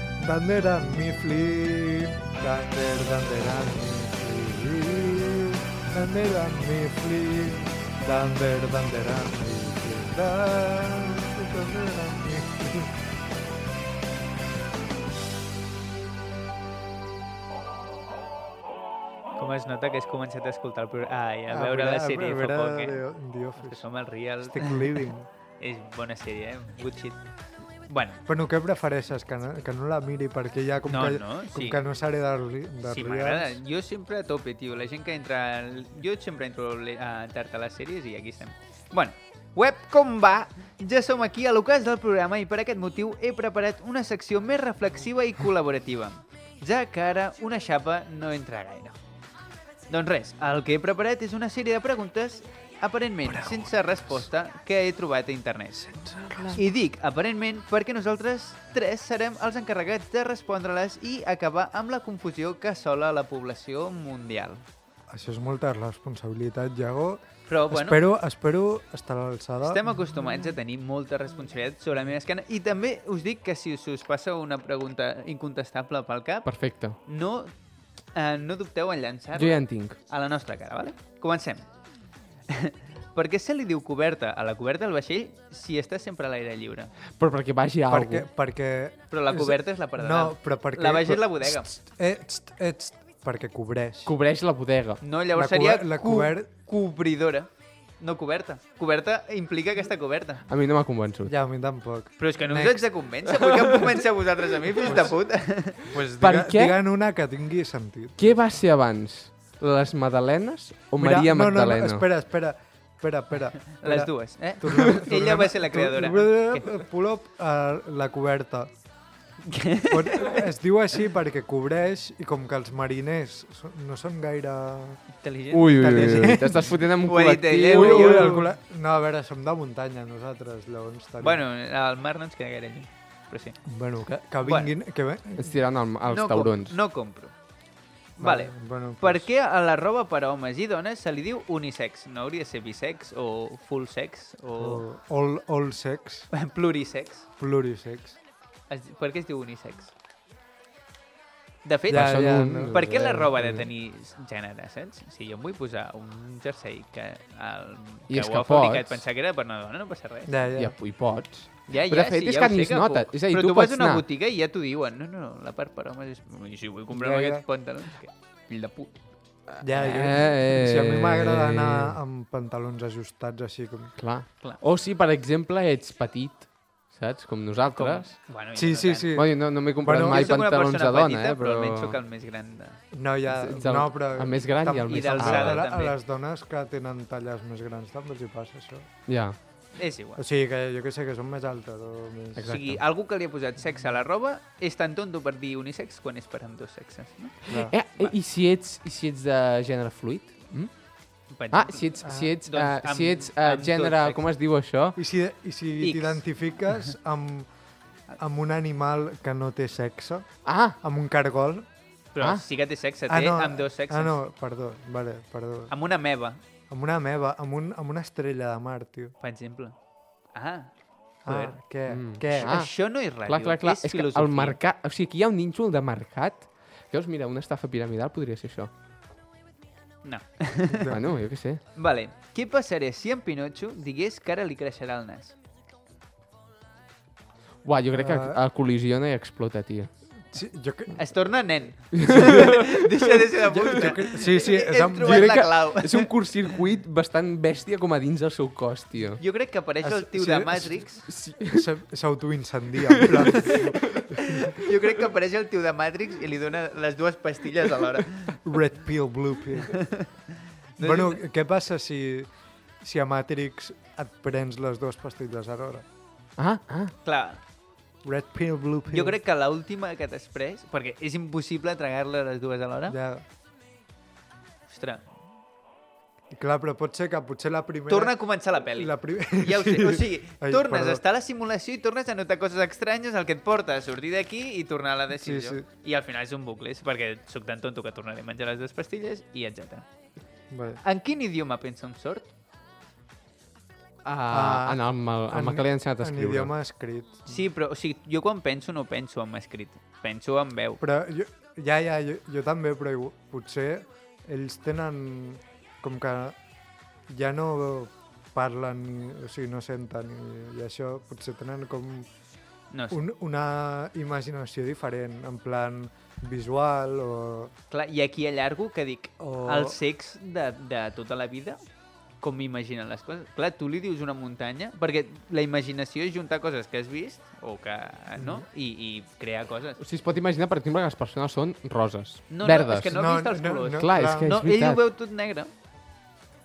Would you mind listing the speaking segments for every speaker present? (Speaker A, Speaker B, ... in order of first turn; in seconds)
Speaker A: 0.2-12.9, 21.5-25.3, 28.3-33.6, 65.1-70.0, 87.9-94.1, 95.3-96.5, 101.2-102.8, 104.8-108.3, 111.0-118.7, 119.9-125.1, 125.8-126.8, 127.7-131.4, 133.7-135.6, 138.2-139.2, 144.6-146.3, 147.4-148.2, 151.9-153.3, 160.3-160.8, 166.9-167.4, 169.6-174.0, 178.5-180.3, 182.9-188.9, 190.2-192.6, 197.5-197.7, 202.0-202.3, 204.9-211.7, 213.1-215.7, 216.7-219.1, 221.2-222.6, 230.7-231.0, 237.9-238.3, 240.3-241.6, 242.2-242.5, 243.5-245.3, 249.8-254.6, 258.4-260.1, 260.8-265.8, 268.0-269.2, 272.9-273.2, 276.3-281.0, 285.1-285.6, 290.5-290.8, 294.3-297.3, 300.8-306.4, 307.1-312.1, 312.9-317.5, 319.2-319.8, 328.2-328.4, 332.9-334.3
Speaker B: 19.4-25.0, 25.6-28.2, 30.9-31.8, 32.9-49.0, 49.9-55.9, 56.5-64.6, 67.5-68.0, 69.6-81.9, 82.6-86.9, 89.1-91.7, 95.0-100.4, 102.2-105.9, 113.8-116.8, 119.5-120.3, 125.2-128.4, 131.2-133.6, 134.4-134.7, 136.1-137.3, 138.2-144.8, 146.3-147.3, 148.7-149.9, 151.6-160.3, 161.7-169.0, 169.7-170.0, 177.7-179.1, 179.9-182.8, 184.9-186.0, 189.7-190.2, 192.4-198.1, 201.3-204.2, 205.8-206.7, 212.1-214.2, 215.7-216.4, 219.2-219.8, 220.3-221.6, 222.3-224.6, 230.0-235.3, 240.9-246.5, 249.2-251.1, 254.6-258.4, 260.8-261.2, 267.0-267.4, 268.9-272.9, 274.7-275.1, 277.9-292.3, 297.3-300.8, 312.7-313.0, 317.7-321.6, 322.2-329.8, 332.3-335.5
Speaker C: 56.2-56.6, 76.4-77.0, 79.3-80.0, 87.2-88.3, 94.0-95.0, 100.5-101.3, 106.2-106.8, 108.2-112.1, 125.5-128.5, 135.4-136.8, 151.9-153.6, 158.1-159.0, 160.6-164.0, 169.5-172.0, 174.0-178.2, 179.1-182.0, 183.3-185.7, 189.1-189.4, 192.3-192.8, 197.5-205.0, 210.4-210.8, 221.9-228.7, 230.9-231.6, 237.6-239.9, 242.0-242.8, 245.0-249.2, 251.1-251.6, 266.4-266.9, 294.0-296.5, 329.8-333.0, 333.6-334.8